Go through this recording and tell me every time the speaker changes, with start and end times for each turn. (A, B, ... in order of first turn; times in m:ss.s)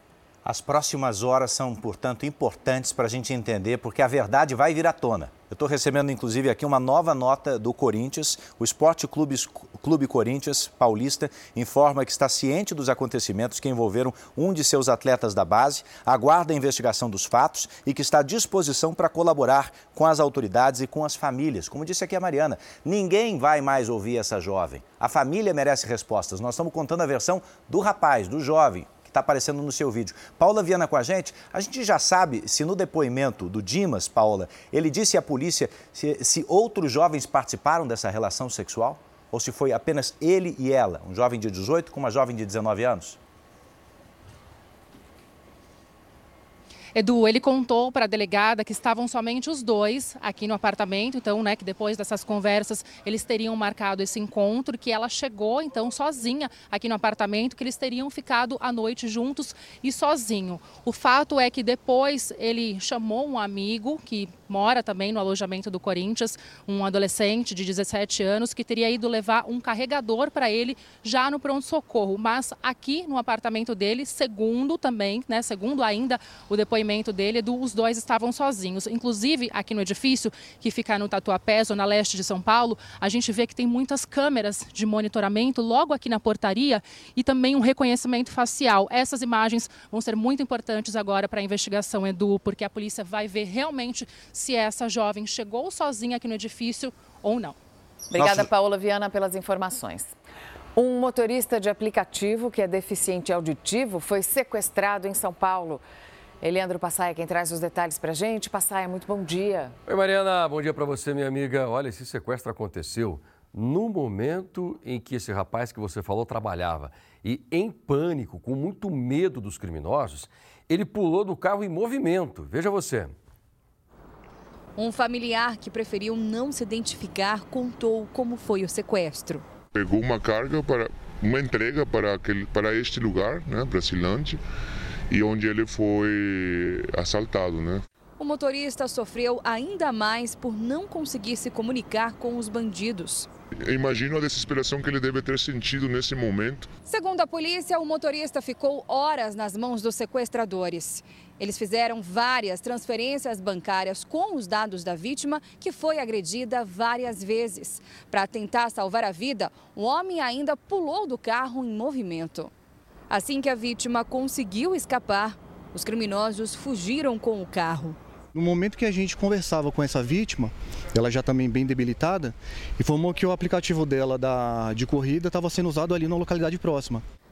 0:00.4-0:43.2 A
0:47.0-1:37.6 B
1:38.1-1:40.1 C
1:40.8-1:45.8 C
1:46.4-1:49.8 C
1:49.9-2:03.1 D
2:04.8-2:09.4 E
2:09.7-2:14.4 F
2:15.1-2:17.8 F
2:18.2-2:23.3 E
2:23.6-2:26.7 F
2:26.9-2:42.5 E
2:43.1-2:48.0 E
2:48.3-2:57.0 G